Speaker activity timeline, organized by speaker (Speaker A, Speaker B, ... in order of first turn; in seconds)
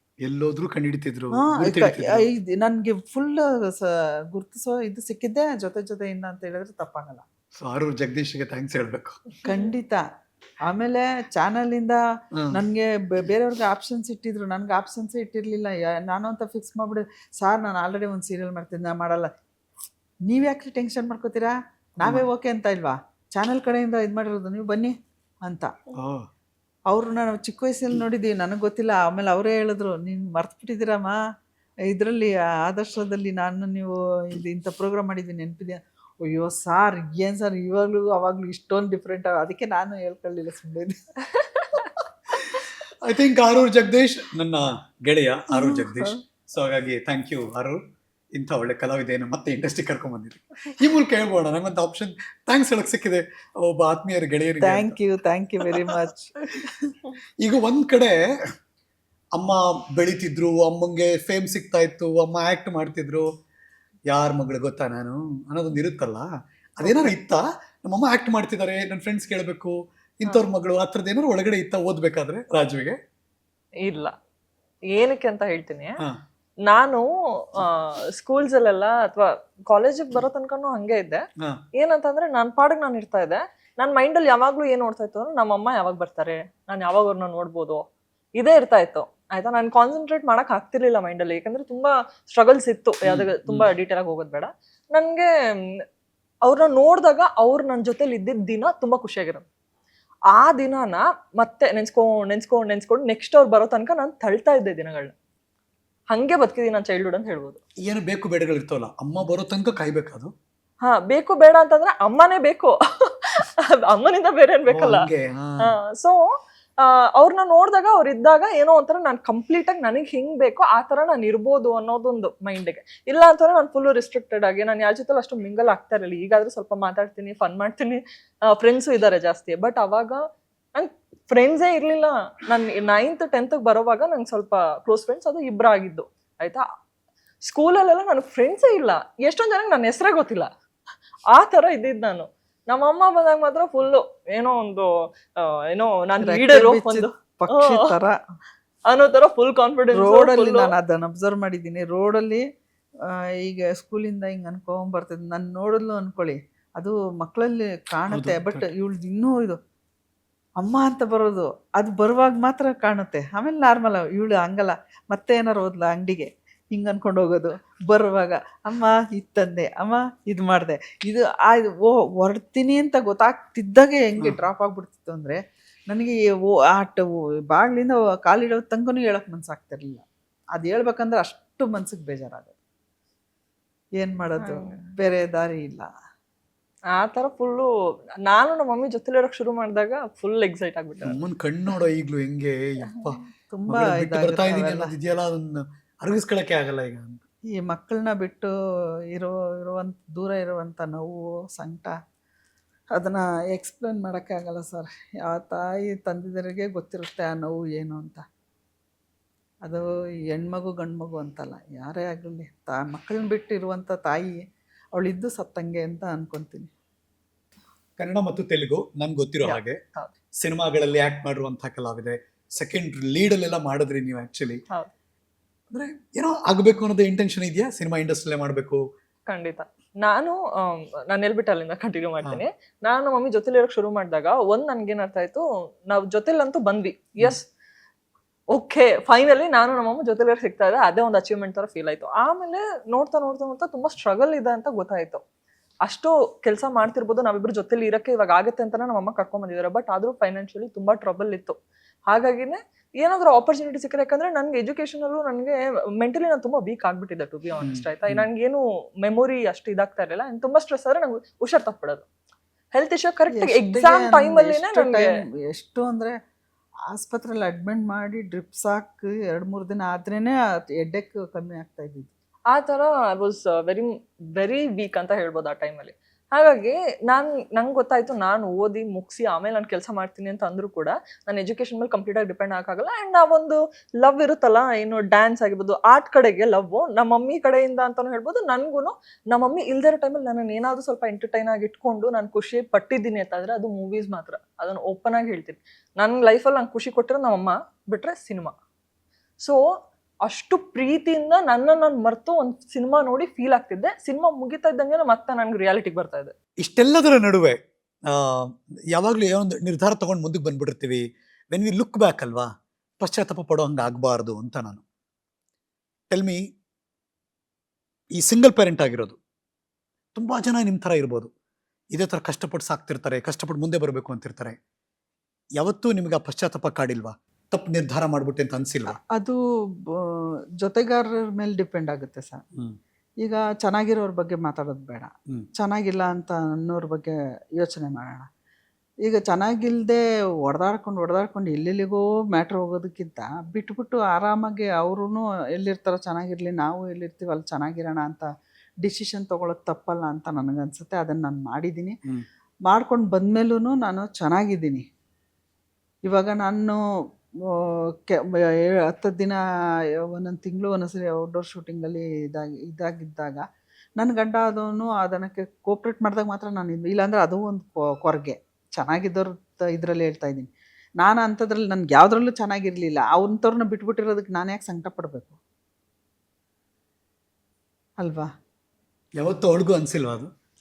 Speaker A: 0.2-2.3, 7.6-9.2, 26.0-26.3, 42.5-47.8, 48.3-55.0, 57.4-58.1, 59.3-63.3, 64.1-66.3, 66.8-73.0, 93.0-93.7, 107.8-110.3, 114.7-115.7, 158.1-158.7, 191.0-197.2, 218.0-219.8, 220.4-224.6, 225.7-228.8, 257.6-258.3, 306.6-314.8, 316.1-316.4, 318.2-319.2, 320.1-321.3, 321.9-324.6, 325.6-329.0, 379.2-380.3
Speaker B: 1.3-7.2, 9.4-10.0, 10.7-12.0, 12.5-19.3, 20.3-24.9, 25.4-25.7, 26.9-31.2, 31.9-40.9, 45.5-46.2, 54.6-56.3, 146.2-148.2, 149.9-152.4, 153.4-159.6, 160.6-182.5, 184.0-185.9, 193.5-194.9, 197.6-198.5, 199.2-201.9, 203.0-208.2, 209.7-214.4, 214.9-216.7, 263.3-266.1, 266.9-272.1, 328.9-329.4, 330.0-332.4, 333.2-338.3, 339.1-348.2, 348.8-352.0, 352.7-354.8, 356.1-356.8, 358.9-359.4, 360.1-363.4, 364.0-370.5, 371.0-375.4, 378.0-378.3
Speaker C: 41.4-41.9, 73.8-74.1, 74.9-76.0, 76.7-81.2, 81.8-87.8, 88.4-95.3, 96.4-99.5, 100.3-105.1, 106.1-107.6, 110.8-115.1, 115.6-116.2, 116.8-130.2, 130.8-136.6, 137.4-140.5, 141.3-147.9, 148.9-150.7, 184.4-184.8, 186.9-187.7, 188.2-191.2, 219.4-220.1, 229.3-237.4, 238.5-245.2, 245.8-251.6, 252.1-262.1, 262.7-265.1, 272.5-298.5, 300.2-306.3